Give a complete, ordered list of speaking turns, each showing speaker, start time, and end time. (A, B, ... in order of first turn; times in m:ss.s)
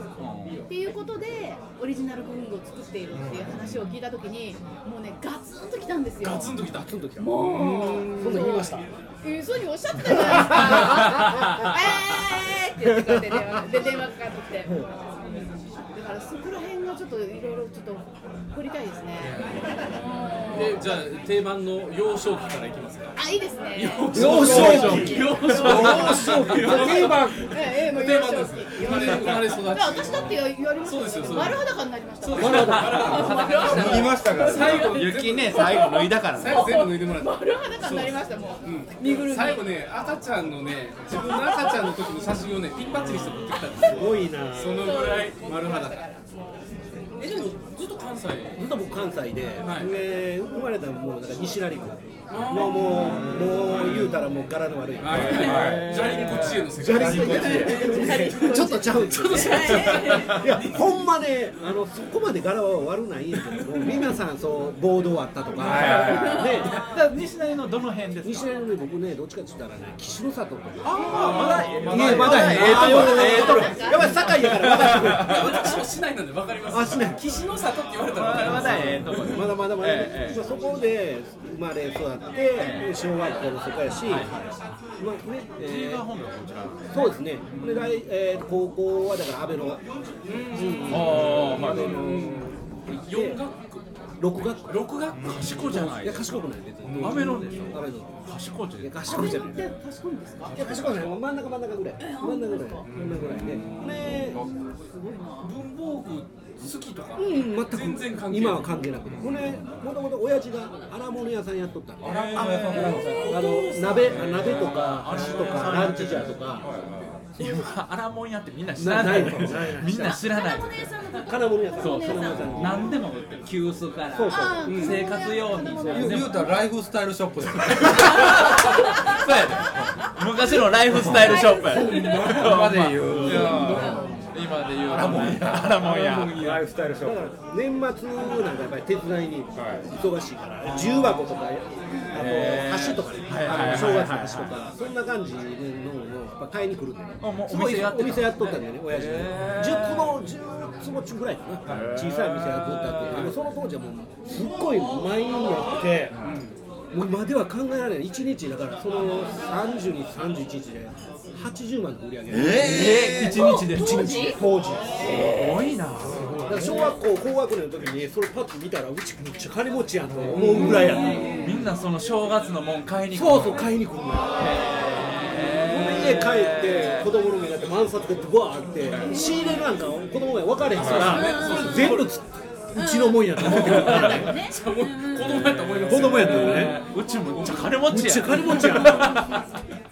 0:00.2-0:00.6 A
0:00.7-0:06.5 B
0:03.1-0:03.6 C
0:06.2-0:08.5 D
0:06.8-0:08.9 E
0:07.2-0:14.9 B
0:10.1-0:11.5 E
0:15.9-0:20.9 B
0:20.5-0:23.2 D
0:23.2-0:39.7 B
0:23.7-0:31.6 D
0:24.1-0:27.5 E
0:24.1-0:25.3 C
0:24.5-0:26.1 A
0:28.9-0:29.3 E
0:32.2-0:46.0 D
0:32.4-0:33.4 E
0:32.5-0:34.2 A
0:33.6-0:35.0 C
0:34.8-0:36.7 A
0:41.2-0:41.9 B
0:43.0-0:44.9 E
0:44.7-0:46.2 B
0:47.2-0:48.6 D
0:48.6-1:06.9 E
0:49.6-0:49.9 D
0:52.3-0:53.2 D
0:52.5-0:53.1 B
0:52.8-0:54.2 C
0:55.0-1:01.0 D
0:55.1-0:55.9 C
0:55.3-0:56.7 A
0:56.8-0:57.9 C
0:57.3-1:00.4 B
1:05.6-1:06.6 C
1:05.8-1:08.5 A
1:05.9-1:07.0 B
1:08.2-1:15.8 E
1:10.8-1:15.5 A
1:10.9-1:12.9 D
1:10.9-1:11.5 B
1:11.4-1:13.3 C
1:12.8-1:14.1 B
1:15.1-1:19.1 D
1:16.7-1:17.2 E
1:18.1-1:20.5 A
1:18.4-1:24.4 E
1:22.6-1:22.9 A
1:24.1-1:24.5 A
1:25.0-1:26.1 E
1:25.6-1:28.0 A
1:26.9-1:29.8 E
1:30.2-1:33.8 D
1:30.5-1:33.4 E
1:30.9-1:32.0 A
1:34.2-1:34.9 E
1:34.7-1:36.0 D
1:34.9-1:36.3 A
1:35.1-1:35.5 C
1:35.6-1:38.2 E
1:36.8-1:37.5 D
1:37.0-1:39.4 A
1:38.8-1:39.7 E
1:39.1-1:41.0 B
1:40.5-1:44.4 E
1:42.0-1:42.9 B
1:42.8-1:44.3 D
1:44.1-1:45.6 B
1:45.4-1:48.8 D
1:47.2-1:56.7 E
1:49.1-1:49.6 C
1:52.0-1:53.4 C
1:52.1-1:55.9 D
1:52.4-1:53.2 A
1:52.7-1:53.8 B
1:54.0-1:56.5 A
1:54.1-1:54.6 C
1:55.5-1:57.3 C
1:57.4-2:00.9 A
1:58.8-2:00.2 E
2:00.0-2:02.4 B
2:01.2-2:03.0 E
2:01.8-2:06.3 A
2:04.1-2:04.9 E
2:04.3-2:06.6 B
2:04.6-2:05.0 D
2:05.8-2:06.3 E
2:05.9-2:08.4 C
2:07.7-2:16.6 A
2:08.3-2:09.2 B
2:10.9-2:14.0 C
2:11.1-2:12.3 B
2:12.0-2:12.3 E
2:13.0-2:13.8 E
2:13.5-2:14.1 B
2:14.9-2:17.3 C
2:15.9-2:16.6 D
2:17.0-2:36.2 E
2:19.6-2:19.9 C
2:20.7-2:21.2 A
2:22.1-2:24.6 A
2:23.5-2:23.8 D
2:27.2-2:30.2 A
2:31.7-2:33.4 A
2:34.3-2:35.8 B
2:36.2-2:36.6 D
2:36.9-2:45.5 E
2:42.3-2:43.4 C
2:42.5-2:44.4 A
2:43.1-2:44.4 B
2:45.0-2:46.9 A
2:46.4-2:51.7 E
2:50.2-2:53.7 A
2:50.3-2:51.7 D
2:53.1-3:04.4 E
2:54.4-2:57.1 A
2:59.0-2:59.7 B
3:00.8-3:01.1 C
3:00.8-3:02.1 D
3:01.1-3:02.0 B
3:02.7-3:05.9 B
3:03.5-3:07.7 D
3:05.8-3:06.8 E
3:05.9-3:09.5 A
3:06.8-3:07.4 B
3:07.6-3:09.2 E